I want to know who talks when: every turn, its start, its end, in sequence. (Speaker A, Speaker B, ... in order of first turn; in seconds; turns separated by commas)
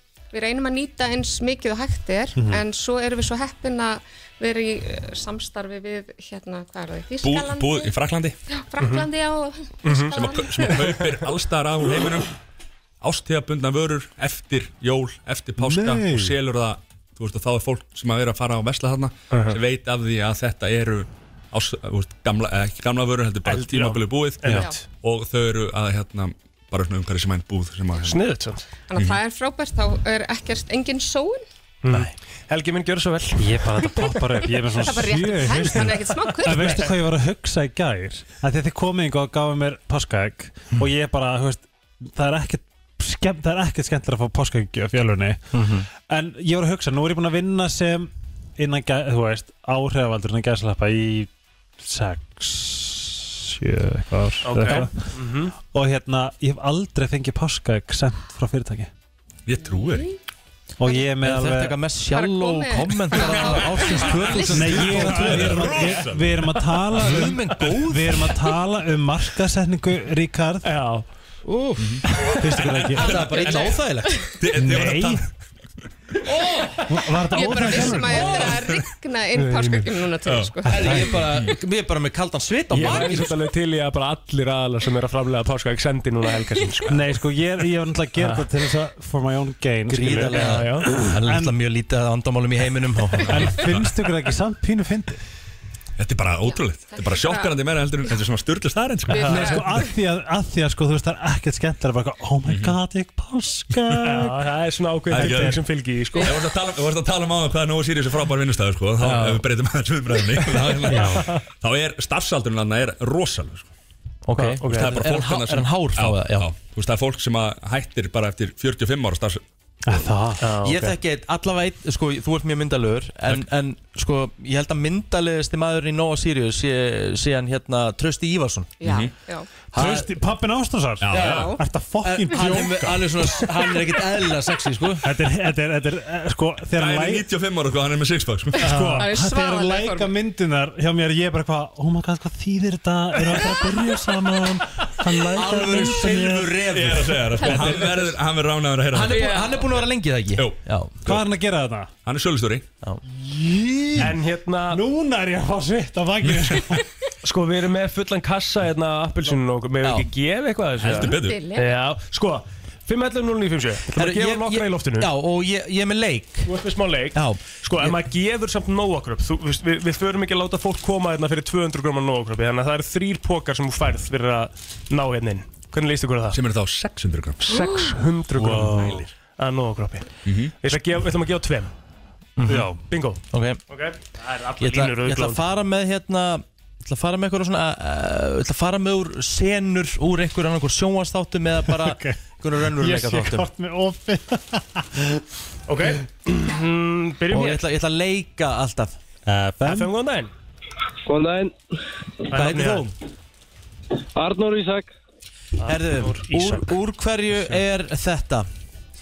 Speaker A: 0.3-7.9, Speaker B: 2.4-2.6, Speaker C: 7.2-8.3, Speaker A: 8.5-10.8, Speaker D: 8.8-9.1, Speaker D: 9.8-10.1, Speaker C: 10.1-12.3, Speaker C: 13.0-28.2, Speaker B: 15.6-16.4, Speaker D: 19.3-19.6, Speaker D: 23.4-24.8, Speaker D: 28.0-28.6, Speaker A: 28.9-31.4, Speaker C: 28.9-29.2, Speaker D: 31.8-34.1, Speaker B: 33.4-58.9, Speaker A: 34.8-37.0, Speaker D: 36.5-36.9, Speaker E: 45.5-45.9, Speaker D: 54.4-55.5, Speaker C: 59.5-60.1, Speaker B: 60.8-61.8, Speaker E: 61.2-65.8, Speaker A: 62.1-64.3, Speaker B: 64.5-70.7, Speaker C: 64.6-66.6, Speaker E: 67.0-68.3, Speaker D: 70.6-71.0, Speaker E: 71.4-72.0, Speaker C: 71.8-72.0, Speaker B: 72.2-73.5, Speaker C: 72.6-73.8, Speaker E: 72.9-74.2, Speaker C: 74.4-75.3, Speaker B: 74.5-75.2, Speaker E: 76.3-76.8, Speaker B: 76.9-78.7, Speaker A: 77.3-81.1, Speaker E: 78.1-78.5, Speaker B: 79.3-80.0, Speaker C: 80.2-80.5, Speaker B: 80.6-81.2, Speaker E: 80.7-83.3, Speaker C: 81.2-81.5, Speaker D: 82.7-87.0, Speaker B: 86.9-91.5, Speaker D: 88.2-88.5, Speaker E: 89.9-93.6, Speaker D: 90.3-90.9, Speaker B: 93.3-95.2, Speaker C: 96.0-99.6, Speaker A: 96.5-97.5, Speaker A: 99.1-99.8, Speaker B: 99.1-104.4, Speaker C: 102.5-102.7, Speaker D: 104.0-106.3, Speaker C: 105.1-105.6, Speaker B: 105.1-105.6, Speaker C: 106.2-113.7, Speaker E: 109.0-109.4, Speaker B: 110.9-111.3, Speaker D: 110.9-111.4, Speaker E: 114.3-116.5, Speaker D: 114.3-115.0, Speaker C: 114.7-119.4, Speaker B: 119.8-120.5, Speaker D: 120.4-120.9, Speaker E: 120.6-128.8, Speaker A: 128.8-129.5, Speaker C: 128.8-129.1, Speaker E: 129.7-130.1, Speaker B: 129.7-133.7, Speaker C: 131.0-131.5, Speaker E: 131.1-131.5, Speaker A: 131.2-131.6, Speaker E: 132.0-135.1, Speaker B: 135.0-137.3, Speaker C: 136.8-138.7, Speaker A: 138.6-140.1, Speaker B: 138.6-146.7, Speaker E: 145.3-148.0, Speaker C: 146.7-149.4, Speaker E: 148.9-151.0, Speaker A: 149.1-149.6, Speaker C: 150.3-151.2, Speaker B: 151.0-151.9, Speaker C: 152.1-152.6, Speaker B: 153.1-154.2, Speaker D: 154.0-154.8, Speaker B: 154.7-156.8, Speaker C: 156.2-156.8, Speaker D: 157.2-165.1, Speaker E: 159.8-160.1, Speaker C: 160.8-161.4, Speaker A: 161.0-161.8, Speaker E: 163.9-166.5, Speaker D: 166.4-176.4, Speaker E: 167.1-167.9, Speaker C: 176.3-177.4, Speaker D: 177.4-180.1, Speaker B: 178.3-179.0, Speaker C: 180.2-180.5, Speaker D: 180.6-181.7, Speaker E: 182.4-182.7, Speaker B: 182.4-182.8, Speaker D: 182.9-185.4, Speaker E: 183.3-183.6, Speaker E: 184.6-193.5, Speaker B: 191.6-195.2, Speaker D: 195.7-197.6, Speaker E: 197.3-199.0, Speaker B: 199.2-199.9, Speaker D: 199.6-200.3, Speaker D: 202.3-202.9, Speaker E: 202.3-202.9, Speaker D: 205.6-206.7, Speaker E: 205.7-208.5